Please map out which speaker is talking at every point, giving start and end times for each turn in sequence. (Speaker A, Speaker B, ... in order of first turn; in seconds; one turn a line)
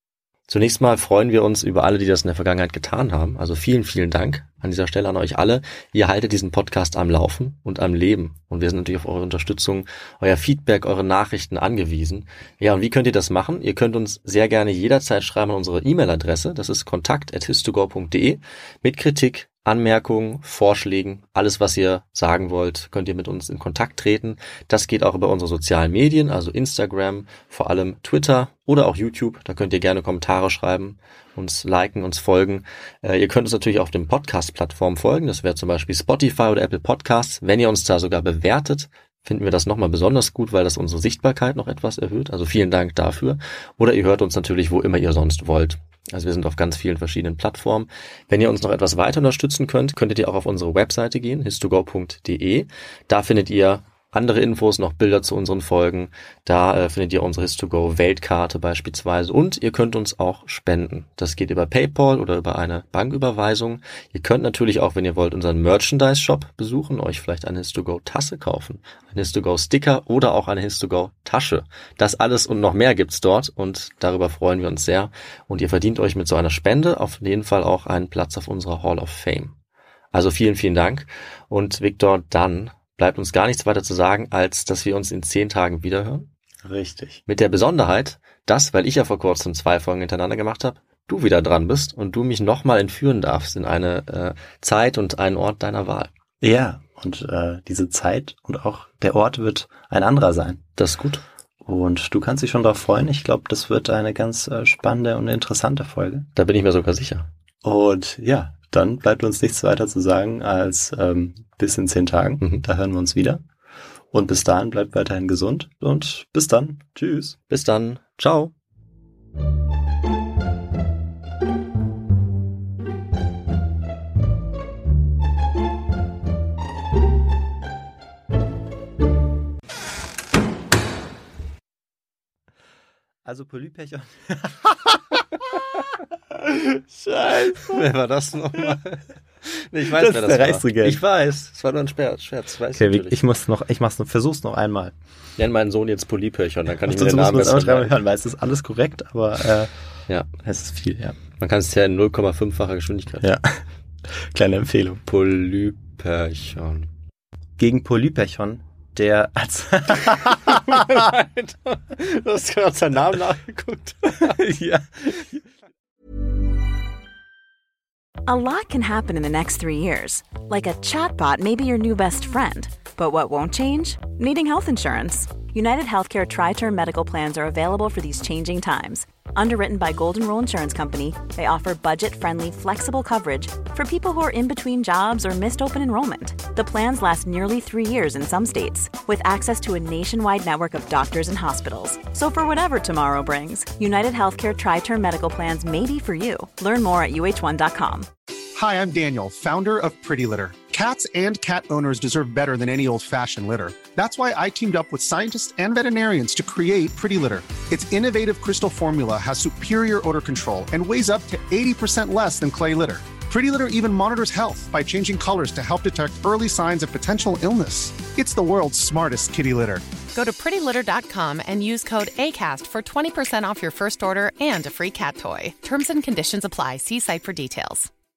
Speaker A: 0.5-79.5
Speaker A: 80.1-86.3
Speaker B: 86.6-87.2
Speaker A: 87.3-96.1
Speaker B: 96.4-100.6
Speaker A: 100.8-101.2
Speaker B: 101.6-106.3
Speaker A: 106.3-107.3
Speaker B: 107.6-113.4
Speaker B: 114.1-117.4
Speaker A: 117.5-118.5
Speaker B: 133.2-135.2
Speaker A: 136.3-143.2
Speaker B: 139.9-141.0
Speaker B: 142.7-144.9
Speaker A: 145.4-148.0
Speaker B: 146.9-149.7
Speaker B: 150.4-151.2
Speaker A: 151.4-153.3
Speaker B: 153.2-155.0
Speaker A: 155.1-156.9
Speaker B: 157.6-160.8
Speaker A: 160.0-164.4
Speaker B: 164.2-165.4
Speaker C: 168.3-198.1
Speaker D: 198.6-219.9
Speaker E: 220.1-227.9